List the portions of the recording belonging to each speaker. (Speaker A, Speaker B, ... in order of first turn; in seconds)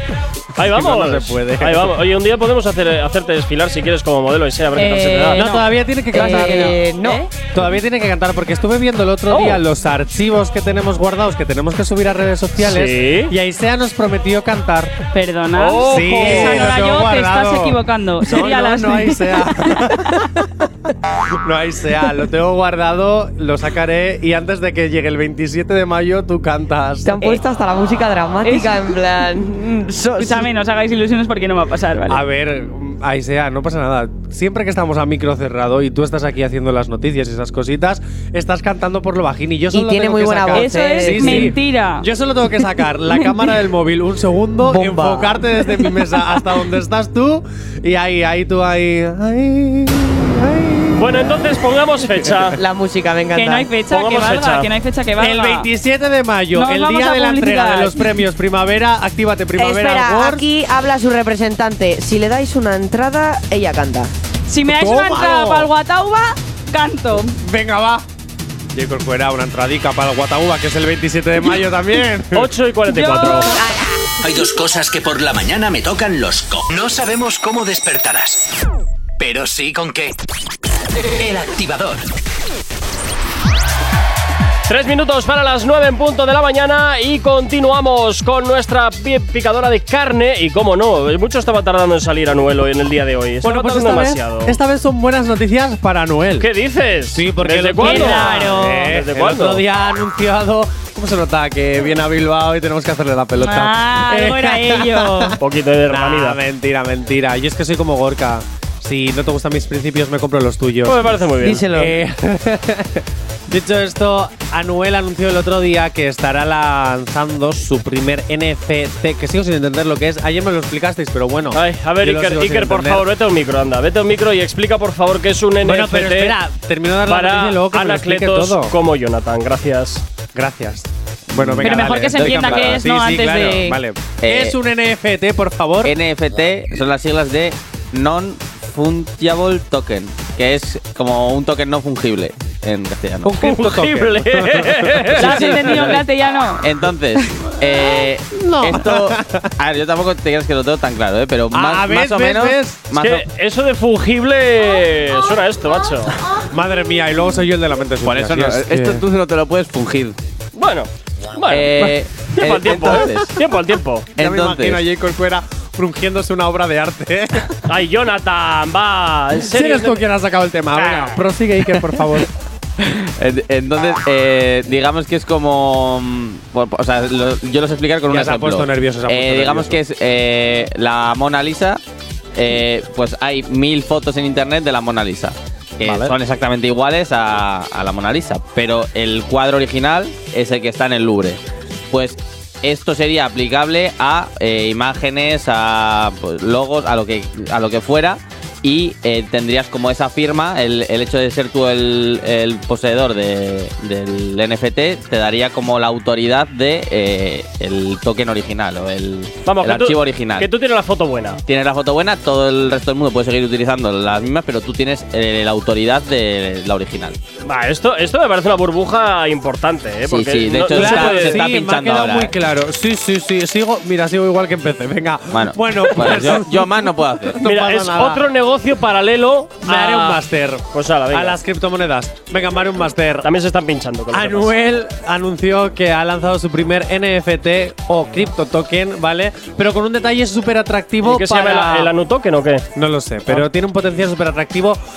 Speaker A: 0.6-5.5, 12.6-13.3, 15.6-16.7, 51.0-52.6, 53.9-54.7, 72.3-73.5, 84.7-94.6, 96.4-99.6, 105.4-106.4, 110.8-111.7, 121.5-126.4, 127.1-130.0, 143.4-145.8, 152.9-156.2, 160.6-164.1, 167.7-170.0, 170.8-171.2, 209.5-211.4, 217.4-221.4, 227.4-231.4, 233.2-234.5, 241.0-242.7
Speaker B: 0.6-1.9, 5.4-6.8, 7.5-15.0, 15.8-20.2, 21.4-27.2, 32.1-51.5, 55.2-60.4, 64.7-65.7, 67.4-68.0, 68.7-72.5, 93.4-96.5, 97.1-123.0, 125.6-128.8, 130.3-135.9, 143.2-145.9, 148.3-149.5, 151.5-152.9, 156.5-159.0, 162.7-163.3, 164.2-167.6, 169.5-172.3, 178.1-179.8, 185.8-186.2, 220.7-228.2, 229.6-233.3, 234.1-241.9, 242.8-244.8
Speaker C: 4.8-7.8, 9.3-9.6, 15.1-20.2, 28.4-28.9, 29.8-32.2, 40.5-42.1, 43.1-43.5, 53.3-55.7, 56.5-58.3, 64.5-67.4, 72.9-73.6, 97.8-99.0, 103.3-105.4, 131.6-133.8, 145.2-146.7
Speaker D: 6.1-7.3, 27.0-30.5, 39.7-41.5, 44.6-45.8, 52.6-53.7, 59.6-64.1, 111.4-112.0
Speaker E: 74.2-78.4, 79.2-80.2, 81.2-82.0
Speaker F: 131.3-132.9, 134.2-134.6, 135.8-143.5, 146.6-153.2, 158.0-160.2, 161.5-163.4, 164.2-164.8, 172.8-181.8, 182.4-210.5, 211.5-217.2, 220.1-222.3, 225.3-227.4